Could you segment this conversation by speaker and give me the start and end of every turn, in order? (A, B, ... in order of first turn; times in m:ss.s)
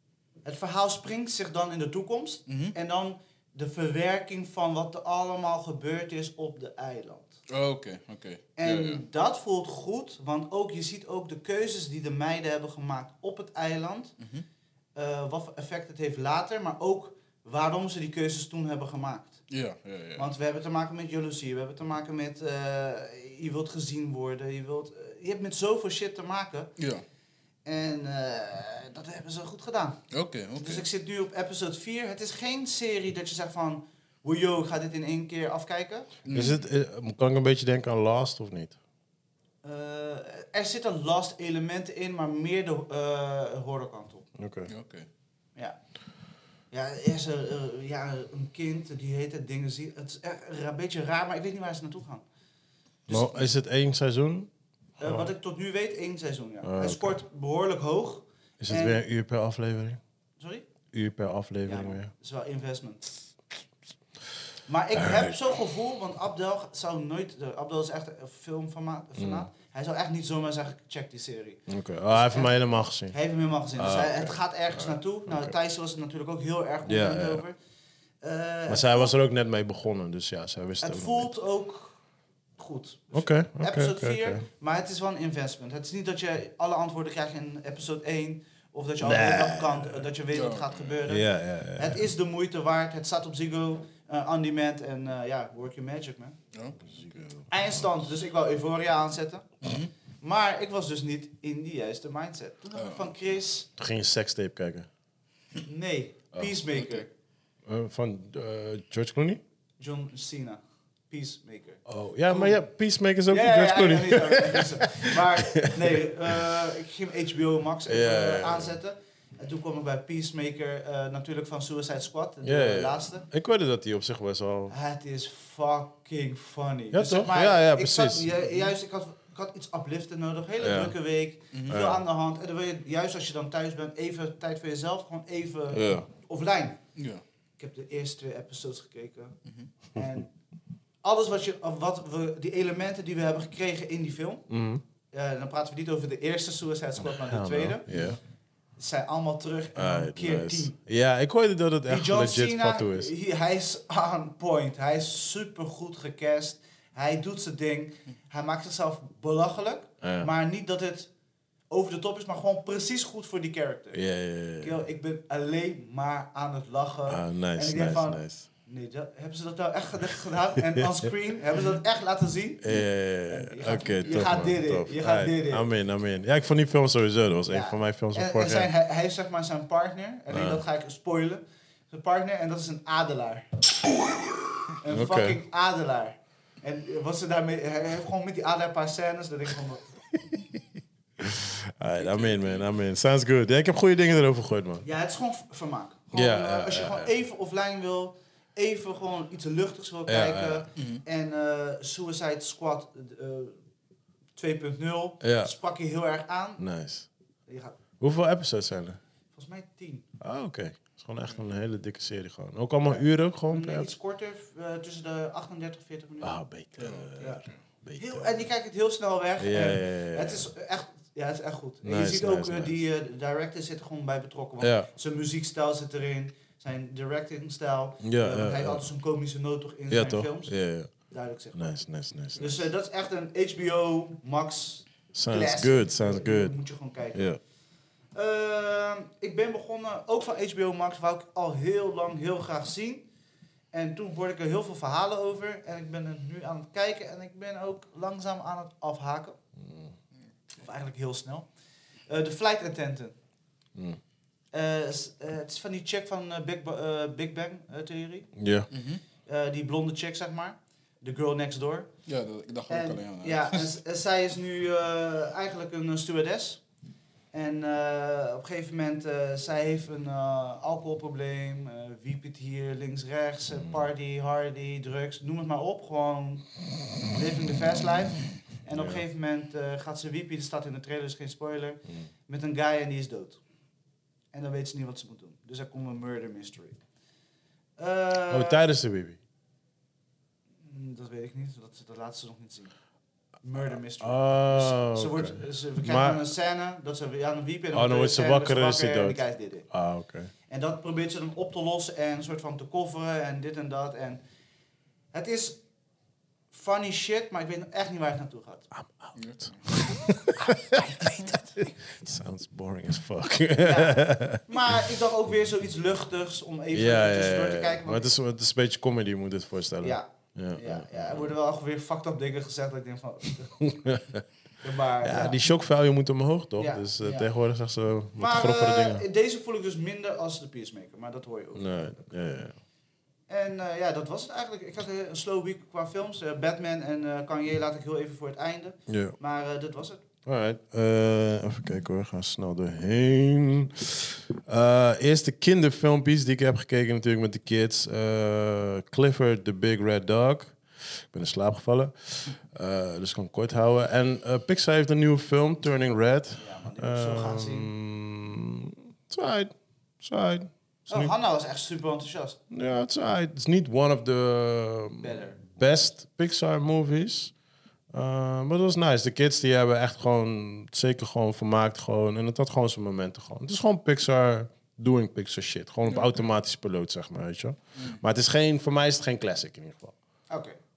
0:00.4-0:07.3 A
0:02.5-0:02.7 B
0:07.5-0:09.0 B
0:08.6-0:14.1 A
0:14.2-0:14.4 B
0:14.9-0:19.4 A
0:19.5-0:20.3 B
0:20.2-0:26.7 A
0:26.8-0:27.0 B
0:27.6-0:30.0 A
0:30.1-0:30.8 B
0:30.6-0:36.1 A
0:36.2-0:36.6 B
0:36.3-0:38.8 C
0:39.6-0:44.2 A
0:44.4-0:44.7 C
0:44.7-0:45.1 B
0:46.7-0:52.2 A
0:53.1-0:54.5 C
0:55.0-0:59.0 A
0:55.0-0:55.3 C
0:56.6-0:57.2 C
0:58.6-1:00.0 C
1:00.4-1:00.6 A
1:00.9-1:02.1 C
1:01.7-1:03.1 A
1:04.7-1:12.5 A
1:05.0-1:05.3 C
1:09.2-1:09.5 C
1:11.7-1:13.1 C
1:13.1-1:17.5 A
1:13.8-1:15.5 C
1:16.9-1:17.4 C
1:18.2-1:19.1 A
1:18.7-1:21.3 C
1:20.8-1:22.0 A
1:22.6-1:36.4 A
1:23.1-1:24.4 C
1:29.0-1:30.0 C
1:30.3-1:31.1 B
1:31.0-1:32.0 C
1:36.5-1:37.3 B
1:36.9-1:37.5 C
1:37.5-1:39.6 A
1:39.6-1:39.9 B
1:40.2-1:43.7 A
1:42.7-1:43.1 B
1:43.8-1:44.9 C
1:45.6-1:47.1 A
1:46.7-1:47.0 B
1:47.7-1:49.4 C
1:49.8-1:52.6 A
1:51.9-1:55.9 C
1:53.3-2:03.2 A
1:57.9-1:58.7 C
2:02.4-2:04.7 C
2:04.7-2:16.8 A
2:06.9-2:08.4 C
2:10.6-2:10.9 C
2:11.5-2:11.9 B
2:11.7-2:12.0 C
2:15.7-2:16.1 C
2:17.0-2:17.2 B
2:17.6-2:19.3 A
2:19.9-2:20.3 A
2:21.0-2:24.4 A
2:24.5-2:24.8 C
2:25.1-2:27.8 A
2:27.1-2:28.2 C
2:27.9-2:28.2 B
2:28.8-2:30.7 A
2:29.8-2:33.1 C
2:31.9-2:41.1 A
2:40.0-2:40.3 C
2:41.7-2:44.0 A
2:43.9-2:44.7 C
2:44.6-2:55.6 A
2:47.1-2:48.4 C
2:52.6-2:58.7 C
2:57.5-3:03.7 A
3:00.3-3:00.6 C
3:04.8-3:09.8 A
3:04.9-3:05.4 C
3:10.4-3:10.6 C
3:11.2-3:14.8 C
3:12.0-3:12.7 B
3:14.8-3:23.6 A
3:16.1-3:17.1 C
3:20.1-3:20.6 C
3:20.8-3:21.0 B
3:24.4-3:26.6 A
3:25.2-3:25.5 C
3:26.6-3:27.1 C
3:27.5-3:27.8 A
3:28.0-3:29.0 C
3:29.3-3:30.0 A
3:30.2-3:33.9 C
3:32.9-3:36.4 A
3:36.2-3:38.4 C
3:36.8-3:37.6 B
3:38.0-3:50.5 A
3:39.4-3:40.5 C
3:41.8-3:42.7 C
3:44.6-3:44.9 C
3:48.0-3:48.8 C
3:49.9-3:50.9 C
3:51.1-3:51.7 A
3:51.5-3:52.6 C
3:52.4-3:57.3 A
3:55.1-3:56.6 C
3:57.1-3:57.4 C
3:58.1-4:03.1 A
4:03.7-4:09.4 A
4:09.6-4:09.9 C
4:10.6-4:11.5 A
4:12.1-4:13.2 A
4:14.5-4:18.3 A
4:18.4-4:18.7 C
4:18.7-4:19.0 B
4:19.2-4:21.9 A
4:22.0-4:23.8 B
4:22.7-4:26.6 A
4:27.3-4:36.4 A
4:37.1-4:43.4 A
4:38.7-4:39.0 C
4:44.3-4:46.8 A
4:47.8-4:48.6 A
4:48.3-4:49.2 C
4:50.6-4:52.7 A
4:53.4-4:59.7 A
4:54.0-4:56.2 C
4:57.7-5:00.3 C
5:00.5-5:04.2 A
5:05.1-5:05.6 A
5:06.5-5:08.7 A
5:08.7-5:14.4 C
5:09.2-5:09.7 B
5:11.0-5:11.5 A
5:13.6-5:18.1 A
5:16.7-5:21.3 C
5:19.8-5:23.7 A
5:23.6-5:24.2 C
5:24.6-5:25.4 A
5:25.0-5:29.0 C
5:26.6-5:27.3 A
5:28.2-5:32.0 A
5:31.5-5:32.5 C
5:33.3-5:40.0 A
5:38.9-5:39.2 C
5:40.2-5:50.6 C
5:51.1-6:01.1 C
5:56.4-5:57.7 A
6:00.9-6:02.4 A
6:02.5-6:07.3 C
6:05.0-6:05.4 A
6:07.9-6:19.9 C
6:15.9-6:16.1 B
6:20.3-6:20.6 A